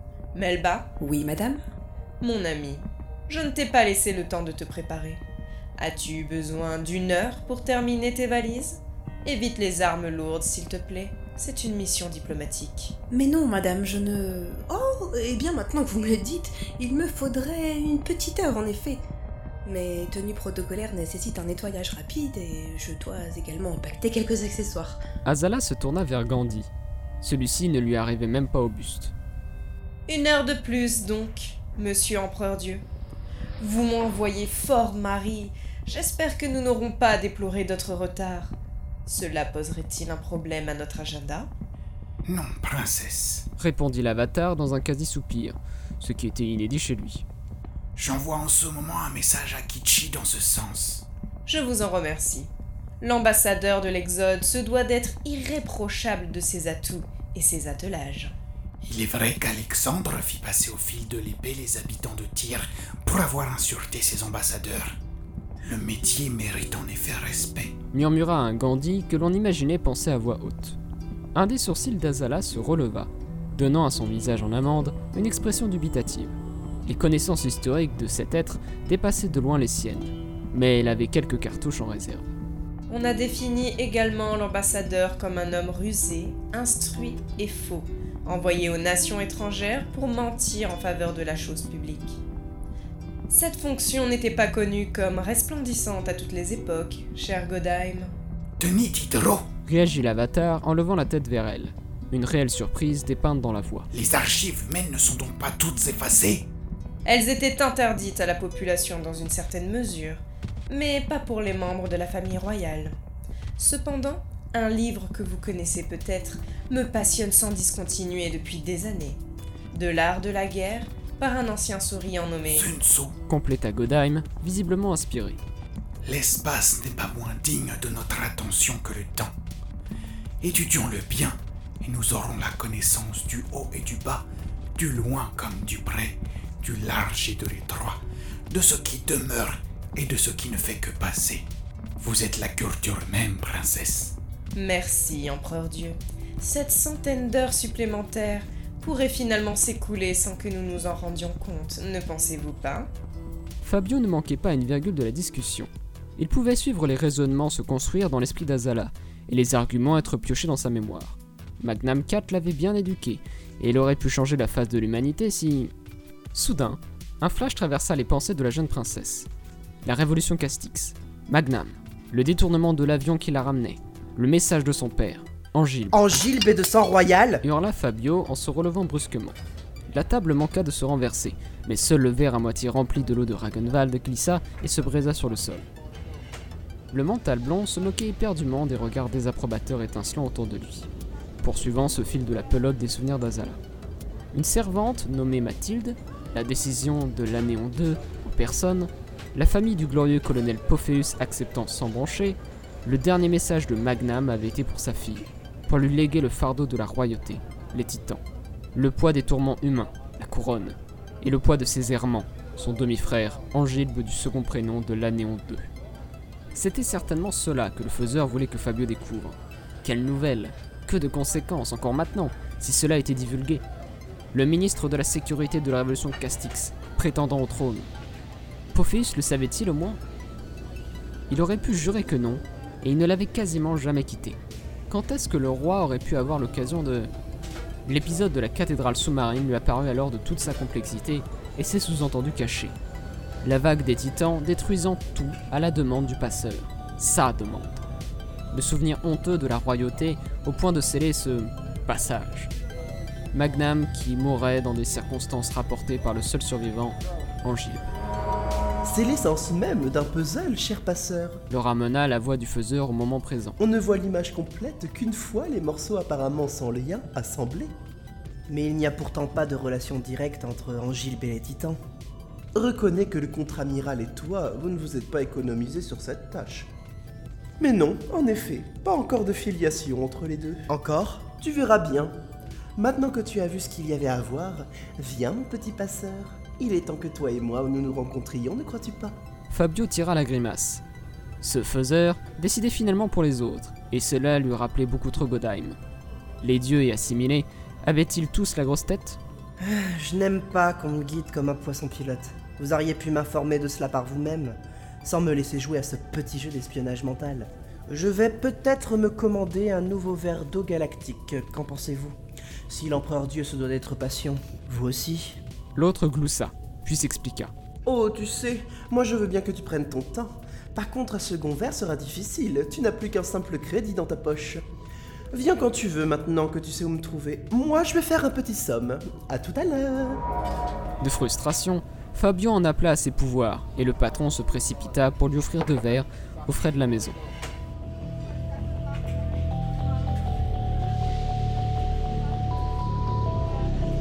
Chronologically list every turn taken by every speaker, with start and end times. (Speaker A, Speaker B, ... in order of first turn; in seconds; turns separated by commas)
Speaker A: 0.3-0.9, Speaker B: 1.0-1.6, Speaker A: 2.2-5.2, Speaker A: 5.8-12.9, Speaker B: 13.1-19.0, Speaker B: 19.6-25.0, Speaker C: 25.2-26.7, Speaker C: 27.2-29.1, Speaker A: 30.1-32.8, Speaker A: 33.6-41.5, Speaker D: 42.2-43.5, Speaker C: 43.6-47.2, Speaker D: 48.0-51.1, Speaker A: 51.5-52.5, Speaker A: 53.0-58.3, Speaker D: 58.8-65.0, Speaker D: 65.7-67.7, Speaker C: 67.9-70.8, Speaker C: 71.3-82.3, Speaker A: 82.9-92.2, Speaker A: 93.3-98.1, Speaker D: 98.6-99.4, Speaker C: 99.7-103.9, Speaker D: 103.9-106.5, Speaker A: 107.0-113.0, Speaker A: 113.6-119.2, Speaker A: 119.7-122.7, Speaker D: 122.5-123.1, Speaker C: 123.3-125.4, Speaker D: 126.0-129.3, Speaker D: 130.4-138.0, Speaker D: 138.5-141.4, Speaker D: 142.0-144.1, Speaker A: 144.5-152.9, Speaker C: 153.6-165.7, Speaker C: 166.3-169.3, Speaker C: 169.8-176.0, Speaker E: 175.9-177.4, Speaker C: 177.4-179.4, Speaker C: 179.9-185.7, Speaker C: 186.9-190.9, Speaker C: 191.4-193.6, Speaker C: 194.3-208.2, Speaker C: 208.7-215.7, Speaker C: 216.5-223.6, Speaker C: 224.3-227.9, Speaker C: 228.7-230.0, Speaker C: 231.3-234.4, Speaker C: 234.9-237.1, Speaker C: 237.8-242.8, Speaker C: 243.4-247.8, Speaker C: 248.5-252.5, Speaker C: 253.3-257.9, Speaker E: 258.8-261.4, Speaker C: 261.5-263.6, Speaker E: 263.6-267.7, Speaker E: 268.5-271.8, Speaker E: 272.5-276.7, Speaker E: 277.6-282.1, Speaker E: 282.8-289.1, Speaker C: 289.5-290.8, Speaker C: 291.4-295.8, Speaker C: 296.4-299.2, Speaker E: 299.6-312.1, Speaker E: 312.7-315.4, Speaker C: 315.7-317.5, Speaker E: 317.9-324.6, Speaker E: 325.3-330.2, Speaker C: 331.0-337.2